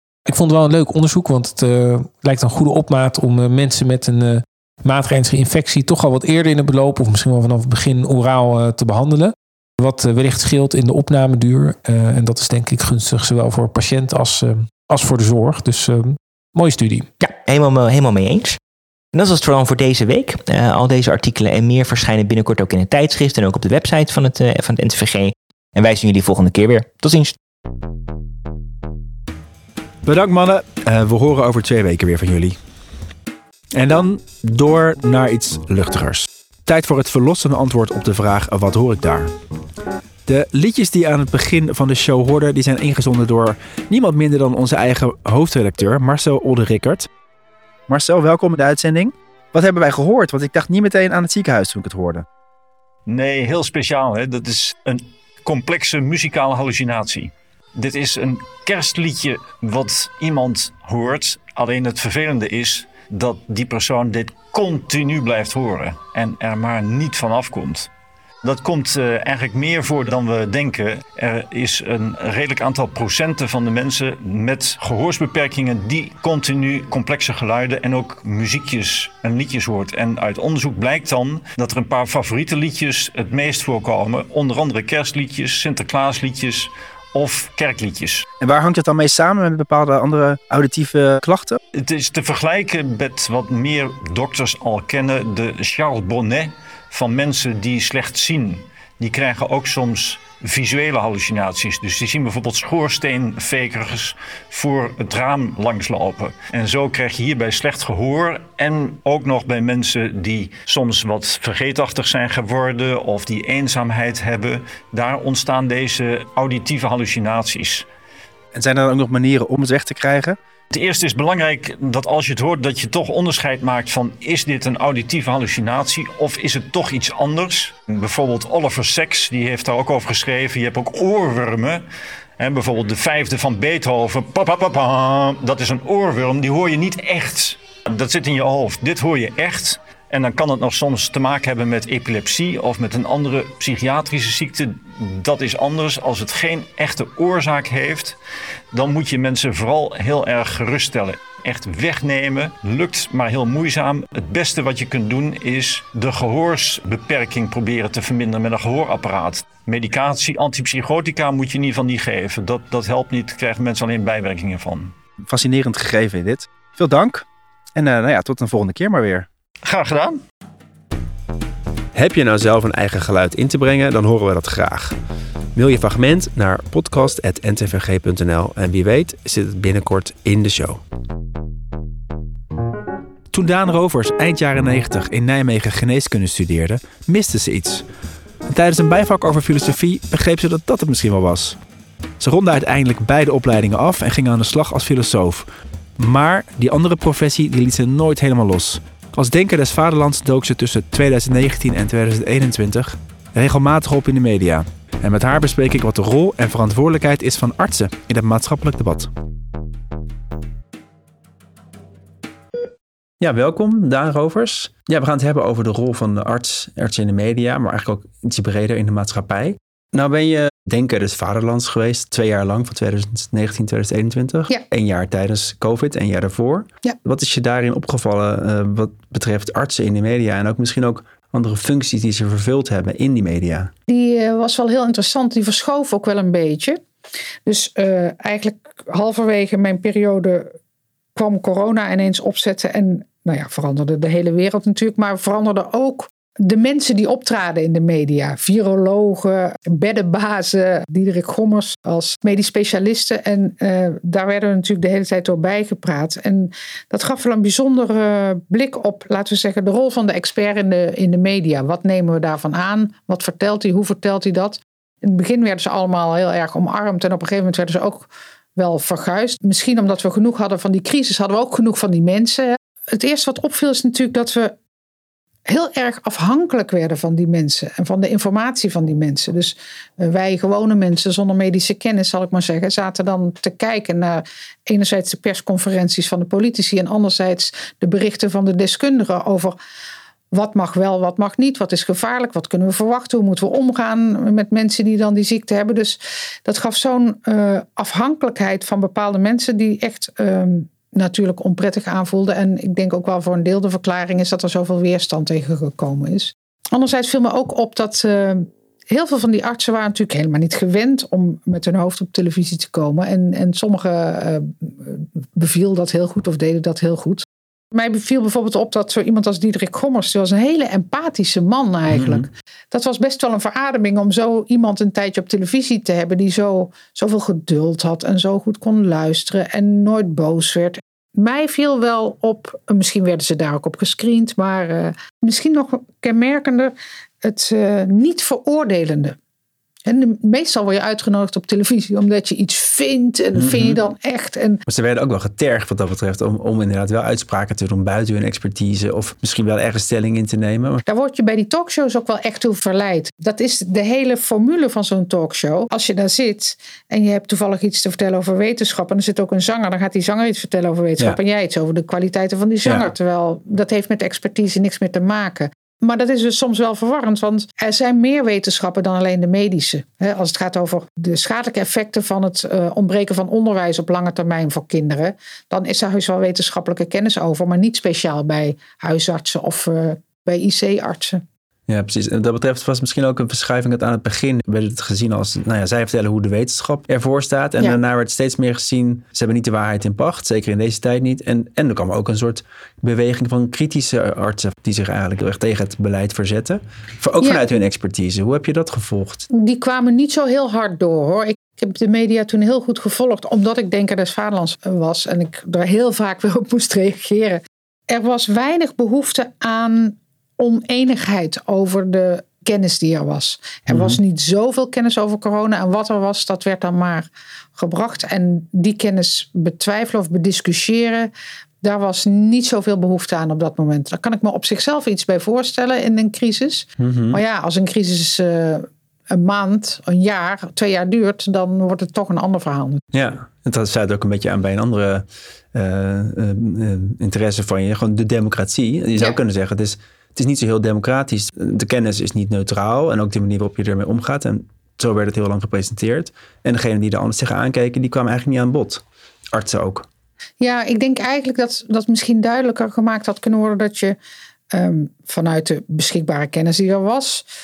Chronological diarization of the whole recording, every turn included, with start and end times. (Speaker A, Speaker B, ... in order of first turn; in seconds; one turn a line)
Speaker A: 0.3-17.1
Speaker B: 17.2-18.6
Speaker B: 19.1-27.4
Speaker C: 30.0-32.6
Speaker C: 33.8-39.3
Speaker C: 40.3-47.1
Speaker C: 47.9-52.2
Speaker D: 53.1-67.9
Speaker D: 68.4-88.3
Speaker C: 88.4-91.6
Speaker D: 91.7-117.9
Speaker C: 118.5-120.4
Speaker D: 120.7-131.8
Speaker D: 132.4-148.2
Speaker D: 148.7-164.9
Speaker C: 165.3-169.3
Speaker D: 169.6-170.2
Speaker C: 171.9-175.0
Speaker C: 175.6-180.8
Speaker C: 183.3-187.8
Speaker C: 188.5-191.6
Speaker C: 192.2-195.5
Speaker C: 196.0-209.1
Speaker C: 213.2-233.7
Speaker E: 233.9-236.8
Speaker E: 237.5-240.5
Speaker E: 241.2-274.6
Speaker E: 275.5-289.6
Speaker E: 290.3-339.2
Speaker C: 321.9-322.2
Speaker E: 339.9-344.6
Speaker C: 343.3-343.8
Speaker C: 344.7-350.8
Speaker E: 350.9-381.2
Speaker C: 362.6-362.9
Speaker C: 381.7-399.3
Speaker E: 399.3-421.1
Speaker C: 413.7-414.0
Speaker E: 421.6-432.8
Speaker C: 426.8-427.2
Speaker C: 432.9-448.8
Speaker C: 449.3-449.9
Speaker E: 450.4-454.0
Speaker E: 454.5-457.3